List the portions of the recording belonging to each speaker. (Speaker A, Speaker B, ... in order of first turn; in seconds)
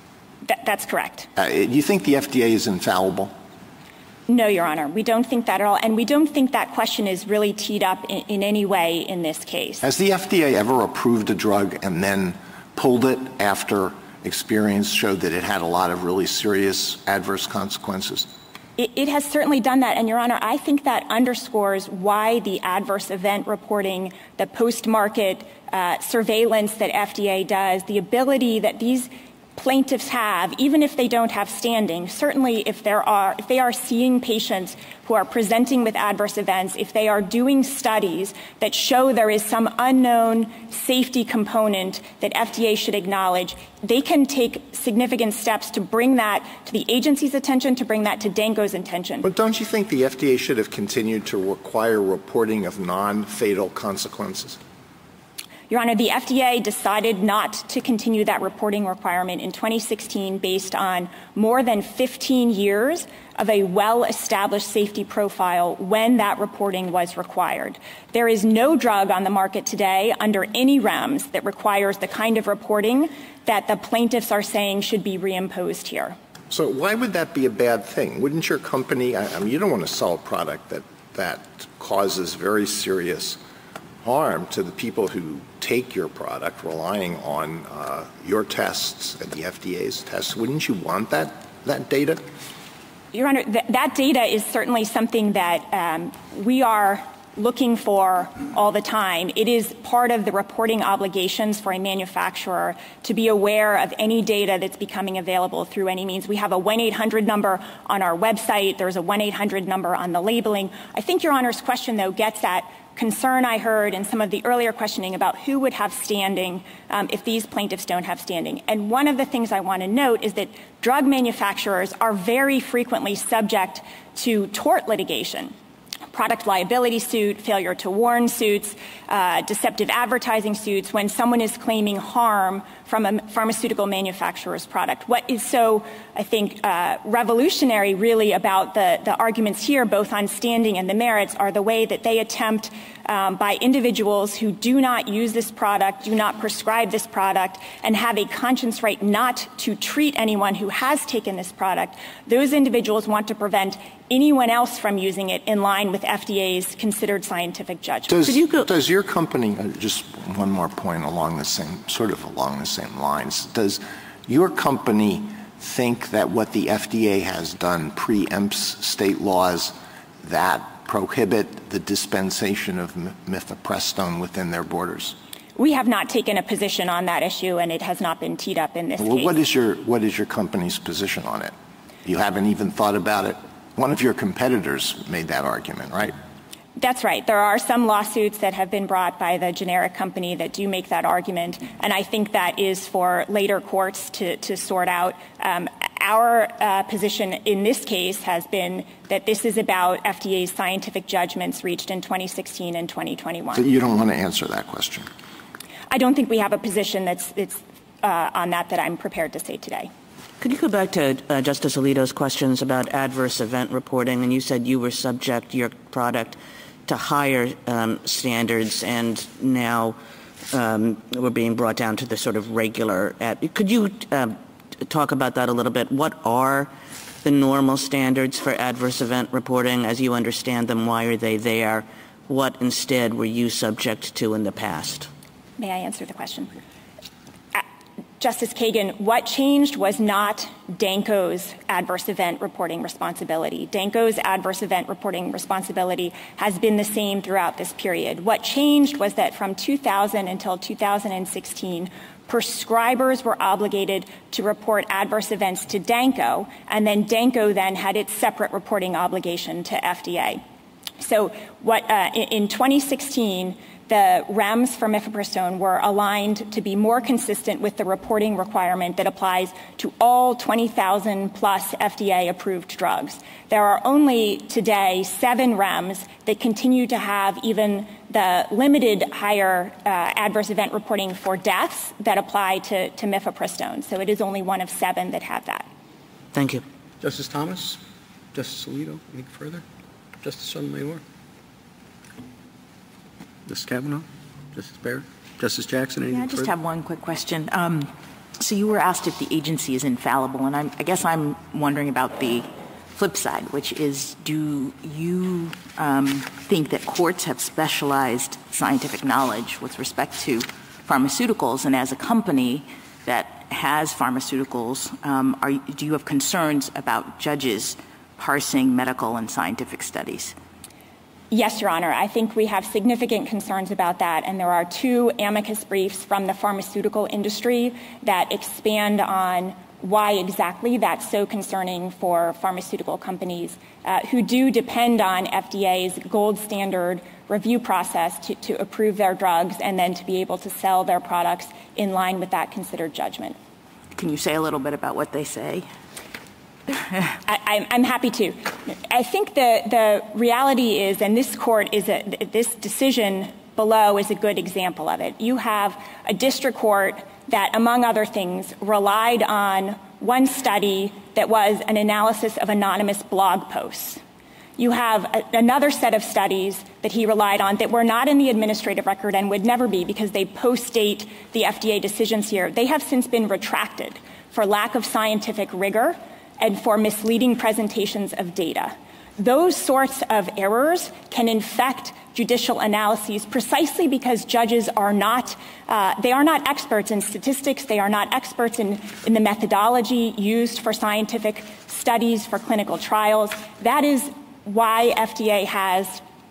Speaker A: 0.5-1.3, 4.3-9.8, 18.8-49.3, 55.7-76.2, 93.1-125.5, 126.1-158.2, 175.6-179.4, 186.8-203.6, 205.9-209.9, 235.6-236.5, 238.2-260.4, 261.0-285.6, 321.3-343.4, 347.2-364.0, 364.6-396.0
Speaker B: 1.4-3.3, 9.8-18.3, 49.2-54.6, 76.5-83.4, 84.0-92.2, 158.1-175.2, 179.0-181.5, 182.0-186.1, 203.5-205.1
Speaker C: 158.3-158.6, 210.4-220.0, 220.5-226.7, 227.2-235.1, 286.3-286.6
Speaker D: 287.0-287.8, 288.3-289.6, 290.2-291.0, 293.4-296.5
Speaker E: 296.1-320.3, 343.9-345.7